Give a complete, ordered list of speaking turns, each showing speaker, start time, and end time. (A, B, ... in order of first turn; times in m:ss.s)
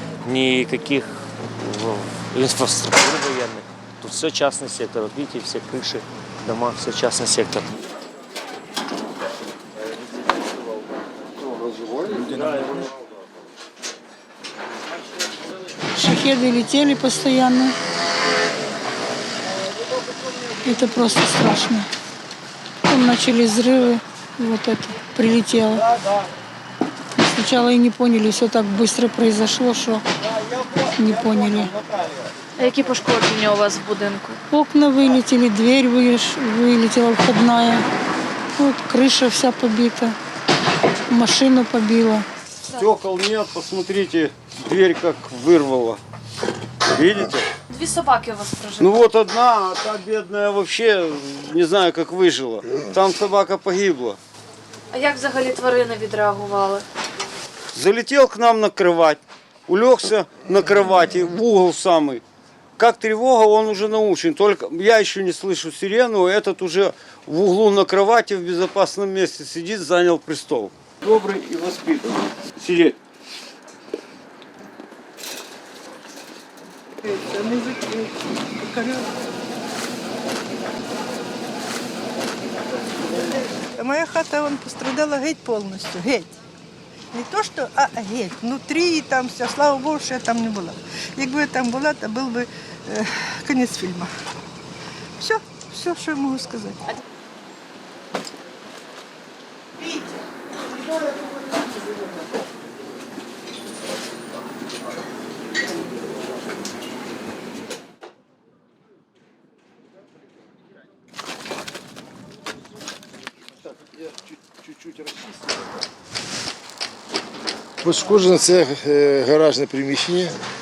0:00.2-0:07.8 A
0:16.0-0:17.7 B
0:20.6-0:21.9 B
0:22.9-0:25.9 B
0:27.2-0:30.0 B
0:30.8-0:31.7 B
0:31.7-0:32.2 C
0:32.6-0:34.4 D
0:34.5-0:37.8 B
0:38.6-0:40.2 B
0:41.1-0:42.2 B
0:42.7-0:46.0 C
0:46.9-0:47.5 C
0:47.7-0:49.1 D
0:48.8-0:54.2 C
0:54.9-0:56.8 D
0:57.7-1:02.2 C
1:02.8-1:13.0 C
1:17.0-1:19.1 E
1:23.1-1:26.3 E
1:27.1-1:34.1 E
1:35.2-1:36.8 E
1:57.8-2:00.4 F